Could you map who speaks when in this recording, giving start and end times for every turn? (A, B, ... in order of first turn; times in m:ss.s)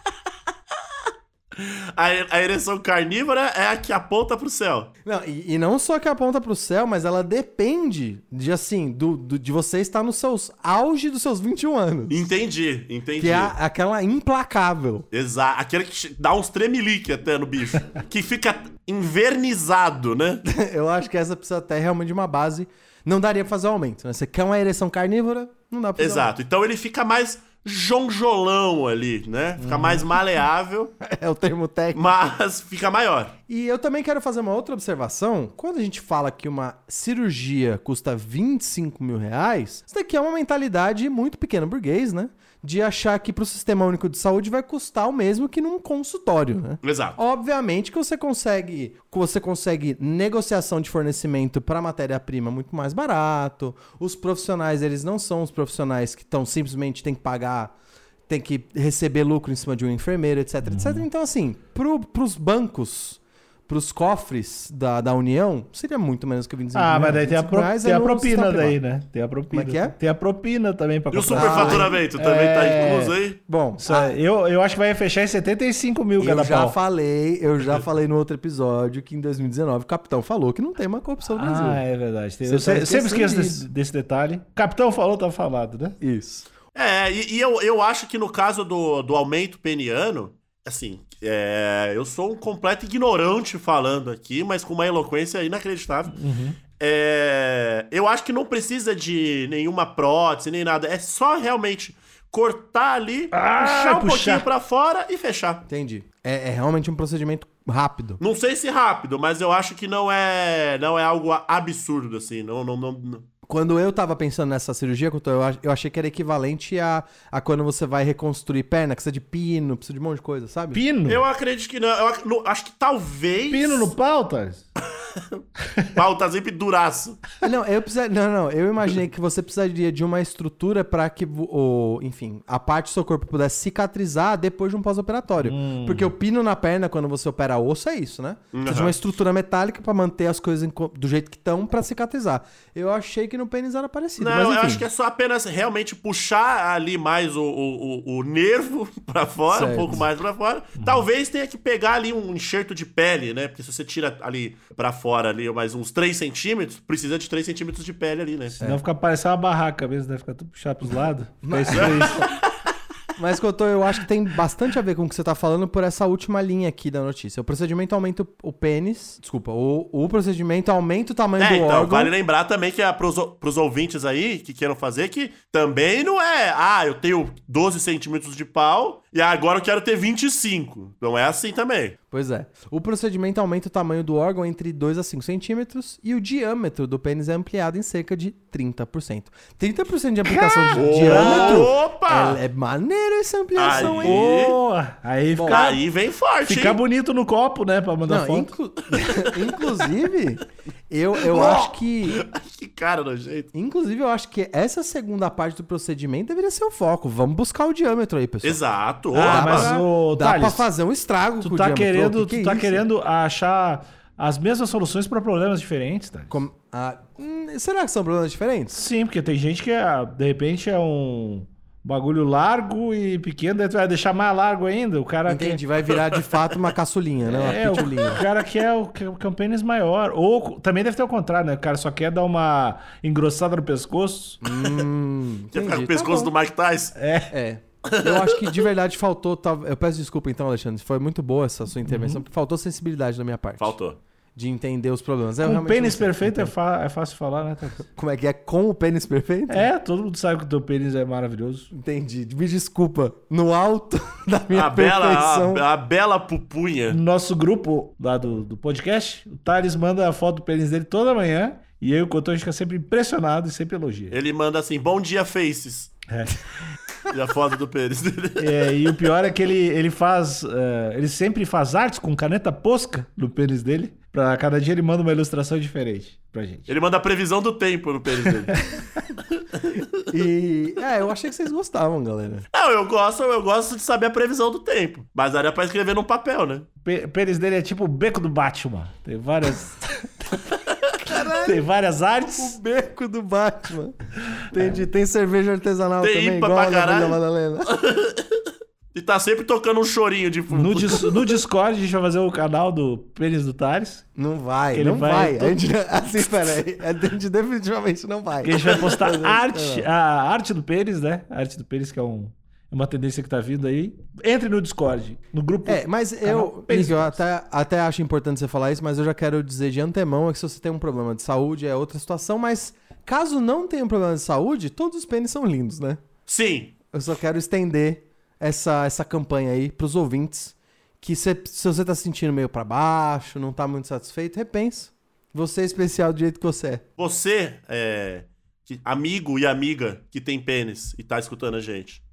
0:01.5-0:04.9 A
0:05.0-0:12.2 B
0:12.1-0:13.5 A
0:13.2-0:15.1 B
0:15.1-0:20.4 A
0:20.4-0:26.3 B
0:26.0-0:30.9 A
0:29.6-0:30.0 C
0:31.0-0:32.0 B
0:31.9-0:33.4 A
0:33.5-0:57.7 B
0:46.8-0:47.2 A
0:58.3-1:08.8 B
1:00.6-1:01.0 C
1:06.7-1:13.1 C
1:09.5-1:09.9 B
1:11.1-1:13.4 A
1:11.3-1:12.0 B
1:13.5-1:14.2 B
1:13.8-1:16.8 C
1:16.2-1:21.8 B
1:21.3-1:26.0 C
1:22.4-1:23.6 B
1:26.0-1:26.5 B
1:26.7-1:36.2 A
1:36.1-1:36.6 C
1:36.8-1:45.6 A
1:43.3-1:44.5 C
1:45.7-1:48.2 B
1:48.2-1:53.2 A
1:53.5-2:00.8 B
2:00.7-2:01.2 C
2:01.1-2:03.9 A
2:03.5-2:04.6 C
2:05.9-2:07.2 A
2:07.4-2:24.8 B
2:15.4-2:16.1 C
2:18.5-2:19.0 A
2:24.2-2:38.6 A
2:29.5-2:30.0 B
2:30.8-2:31.0 C
2:38.6-2:42.3 C
2:41.4-2:42.3 B
2:41.7-2:42.4 A
2:43.2-2:52.1 B
2:51.4-3:02.0 A
3:02.1-3:14.3 B
3:10.2-3:11.7 C
3:10.7-3:12.4 A
3:13.6-3:14.6 A
3:13.7-3:15.8 C
3:15.3-3:15.6 B
3:15.5-3:16.8 A
3:16.4-3:18.5 C
3:18.0-3:22.2 B
3:19.0-3:19.7 A
3:21.3-3:23.5 A
3:23.5-3:28.6 B
3:28.4-3:29.7 A
3:29.1-3:30.7 C
3:29.2-3:32.8 B
3:31.4-3:36.4 C
3:36.3-3:38.8 B
3:38.7-3:45.6 C
3:45.3-3:48.2 B
3:45.9-3:46.3 A
3:47.2-3:54.4 C
3:54.4-3:56.3 B
3:55.5-3:57.0 A
3:57.0-3:57.3 C
3:57.3-4:03.7 B
3:57.8-3:58.5 A
4:01.9-4:02.2 C
4:03.6-4:04.0 A
4:04.4-4:06.5 B
4:05.4-4:07.8 C
4:07.9-4:09.7 B
4:09.5-4:11.7 C
4:11.7-4:15.6 B
4:14.5-4:17.0 A
4:16.9-4:24.2 C
4:24.1-4:25.9 A
4:26.1-4:26.4 C
4:27.0-4:28.6 A
4:28.4-4:36.7 C
4:36.7-4:38.6 A
4:40.1-4:42.4 B
4:42.5-4:46.6 A
4:46.8-4:50.4 C
4:51.0-4:51.6 B
4:51.4-4:52.6 C
4:52.4-4:53.9 B
4:54.5-4:57.7 B
4:56.0-4:58.4 A
4:58.9-5:01.3 A
5:00.5-5:04.0 C
5:04.2-5:09.9 B
5:04.7-5:05.6 C
5:08.4-5:17.2 C
5:15.6-5:26.0 B
5:26.3-5:26.7 A
5:26.9-5:36.8 B
5:37.0-5:42.0 A